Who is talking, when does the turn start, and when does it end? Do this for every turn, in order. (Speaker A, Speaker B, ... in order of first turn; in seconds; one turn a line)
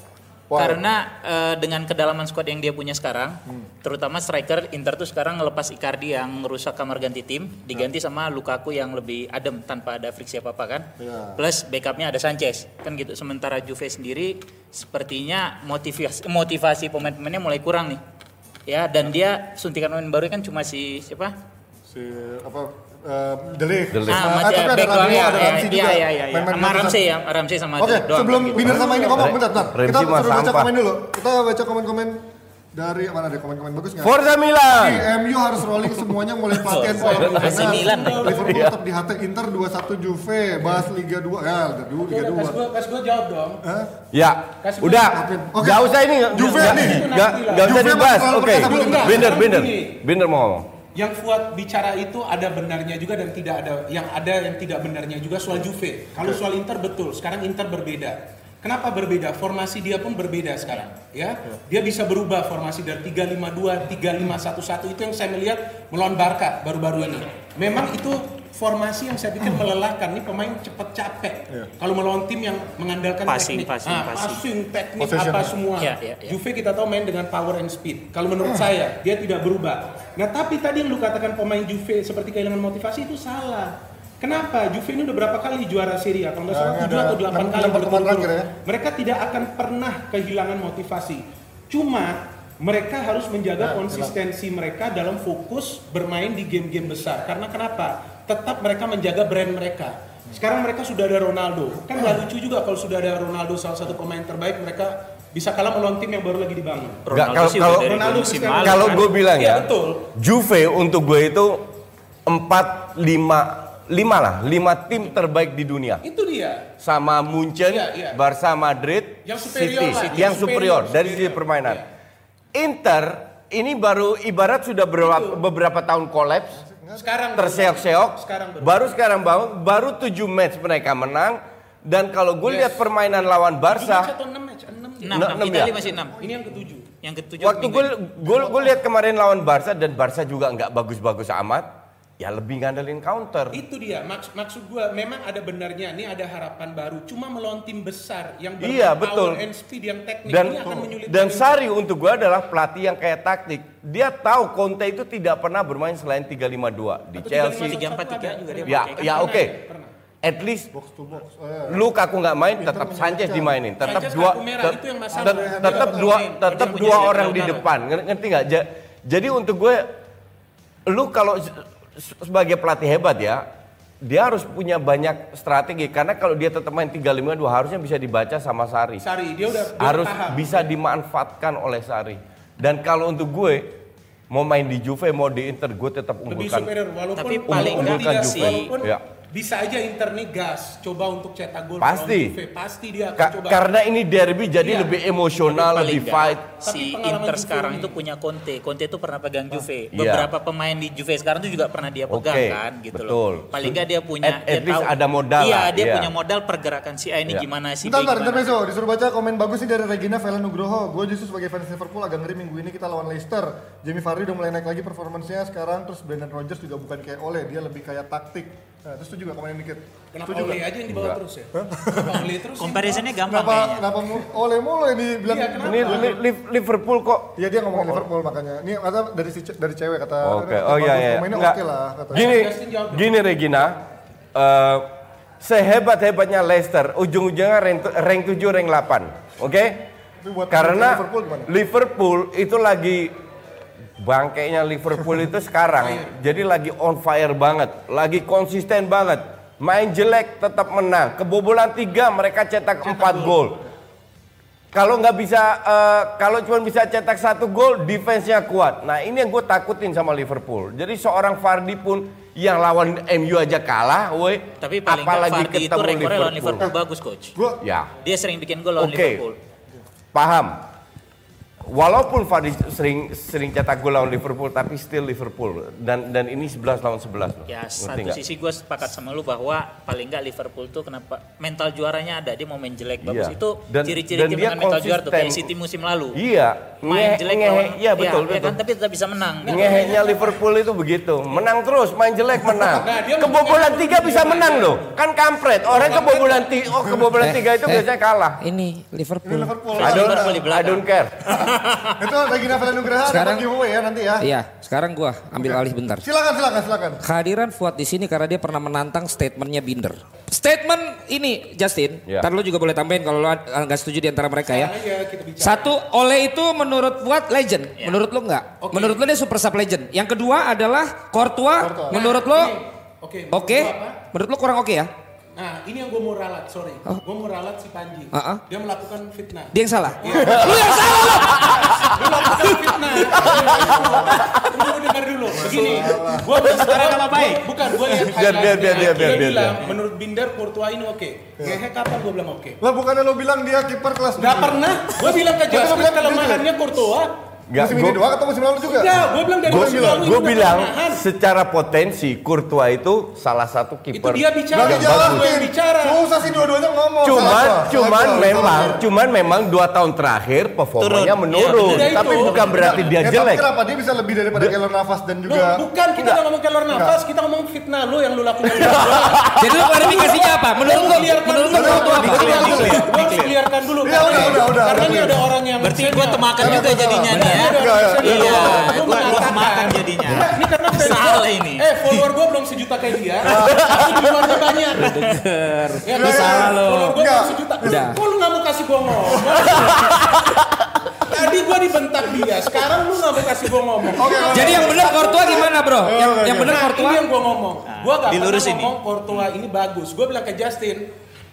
Speaker A: 0.5-0.8
Speaker B: 0.5-18.0
Speaker A: 11.0-11.4
Speaker B: 18.7-21.3
Speaker A: 21.9-27.0
Speaker C: 23.9-24.2
Speaker B: 24.1-28.9
Speaker A: 27.8-32.2
Speaker D: 28.6-29.2
Speaker C: 28.6-30.7
Speaker A: 32.7-34.2
Speaker C: 34.0-35.0
Speaker A: 34.7-42.6
Speaker B: 36.5-38.3
Speaker D: 37.0-38.7
Speaker C: 38.3-38.7
Speaker D: 42.0-43.6
Speaker A: 43.6-43.9
Speaker C: 44.1-50.7
Speaker D: 44.6-45.2
Speaker A: 45.1-47.1
Speaker D: 46.3-50.0
Speaker A: 47.6-49.3
Speaker D: 50.9-107.0
Speaker B: 73.2-74.4
Speaker A: 75.0-75.5
Speaker B: 75.8-76.4
Speaker A: 86.5-88.5
Speaker A: 93.6-94.1
Speaker B: 107.1-109.1
Speaker C: 107.1-111.7
Speaker D: 107.8-110.1
Speaker C: 112.3-116.0
Speaker D: 116.0-116.6
Speaker C: 116.8-121.8
Speaker D: 117.7-118.2
Speaker D: 119.2-121.8
Speaker B: 119.9-120.5
Speaker C: 122.5-126.6
Speaker D: 125.0-125.4
Speaker A: 126.6-127.0
Speaker D: 127.0-128.9
Speaker C: 127.4-134.1
Speaker D: 132.4-132.9
Speaker D: 133.7-135.6
Speaker B: 135.0-136.2
Speaker C: 135.1-135.8
Speaker A: 136.2-136.5
Speaker D: 136.2-136.9
Speaker B: 137.0-138.0
Speaker C: 137.4-143.6
Speaker D: 138.3-138.7
Speaker D: 143.5-151.6
Speaker C: 148.6-149.4
Speaker C: 150.3-157.8
Speaker D: 157.2-159.9
Speaker B: 157.5-159.5
Speaker C: 158.6-159.6
Speaker C: 160.2-160.7
Speaker A: 160.7-161.8
Speaker C: 161.7-169.9
Speaker A: 162.5-163.6
Speaker D: 163.8-167.6
Speaker A: 165.1-166.2
Speaker B: 166.4-167.7
Speaker C: 170.9-173.4
Speaker C: 174.0-179.0
Speaker D: 179.0-180.7
Speaker C: 179.7-183.7
Speaker C: 184.3-186.7
Speaker D: 186.3-193.6
Speaker B: 187.2-188.7
Speaker C: 187.5-189.0
Speaker C: 191.8-192.3
Speaker C: 193.2-196.5
Speaker D: 194.6-194.9
Speaker B: 195.5-208.6
Speaker D: 196.6-198.0
Speaker C: 199.9-200.3
Speaker C: 202.1-206.1
Speaker A: 207.8-220.6
Speaker D: 220.1-223.1
Speaker C: 220.9-221.2
Speaker A: 221.5-222.3
Speaker B: 222.6-223.9
Speaker A: 223.3-226.2
Speaker D: 225.2-226.2
Speaker C: 225.6-228.0
Speaker A: 227.4-232.3
Speaker C: 230.2-231.6
Speaker C: 232.1-233.8
Speaker D: 232.1-233.2
Speaker C: 234.3-234.9
Speaker C: 235.4-239.8
Speaker A: 240.2-241.5
Speaker C: 240.5-243.1
Speaker C: 244.0-253.6
Speaker D: 245.7-246.2
Speaker D: 252.8-253.4
Speaker C: 254.7-266.7
Speaker B: 264.6-267.3
Speaker A: 267.3-267.6
Speaker C: 267.6-267.9
Speaker B: 268.0-269.4
Speaker C: 268.8-269.2
Speaker C: 270.1-270.6
Speaker C: 271.7-278.2
Speaker B: 277.5-286.2
Speaker C: 283.0-285.5
Speaker C: 286.1-288.6
Speaker B: 286.8-289.9
Speaker D: 289.4-290.4
Speaker C: 289.5-298.4
Speaker D: 292.8-294.8
Speaker D: 295.8-296.4
Speaker E: 297.2-297.9
Speaker E: 298.4-299.5
Speaker A: 299.2-300.3
Speaker B: 299.8-302.0
Speaker C: 299.8-301.1
Speaker A: 301.4-304.3
Speaker E: 303.0-303.4
Speaker E: 304.2-306.0
Speaker A: 305.3-307.0
Speaker E: 307.0-314.7
Speaker D: 314.4-315.7
Speaker E: 315.4-322.6
Speaker D: 318.6-319.0
Speaker A: 321.6-322.0
Speaker D: 321.9-324.0
Speaker E: 323.3-324.9
Speaker D: 325.4-342.6
Speaker E: 328.1-328.4
Speaker E: 329.5-331.9
Speaker C: 330.1-331.7
Speaker C: 332.4-334.6
Speaker A: 333.2-334.3
Speaker A: 335.3-336.3
Speaker B: 336.3-338.0
Speaker C: 336.4-336.8
Speaker C: 337.9-339.6
Speaker B: 338.6-339.3
Speaker A: 342.6-346.5
Speaker D: 344.2-347.1
Speaker C: 347.5-348.0
Speaker A: 347.6-350.1
Speaker D: 348.6-351.0
Speaker C: 349.5-355.3
Speaker D: 353.9-356.0
Speaker A: 354.5-358.8
Speaker C: 357.0-363.4
Speaker D: 358.2-358.7
Speaker B: 360.8-362.9
Speaker D: 361.5-362.9
Speaker A: 363.0-365.6
Speaker D: 365.2-385.1
Speaker A: 366.7-367.0
Speaker C: 368.5-369.6
Speaker E: 369.4-372.8
Speaker A: 371.5-372.8
Speaker B: 371.6-373.3
Speaker C: 372.0-372.8
Speaker A: 373.8-375.2
Speaker B: 375.6-382.1
Speaker A: 376.4-379.0
Speaker E: 377.1-377.4
Speaker A: 383.2-383.8
Speaker C: 383.3-384.3
Speaker E: 384.7-387.0
Speaker D: 385.8-390.0
Speaker A: 385.9-388.0
Speaker E: 387.6-388.0
Speaker A: 389.1-389.4
Speaker E: 389.8-390.2
Speaker D: 391.1-395.5
Speaker A: 394.0-396.6
Speaker E: 394.3-397.0
Speaker D: 396.3-400.9
Speaker B: 397.7-399.2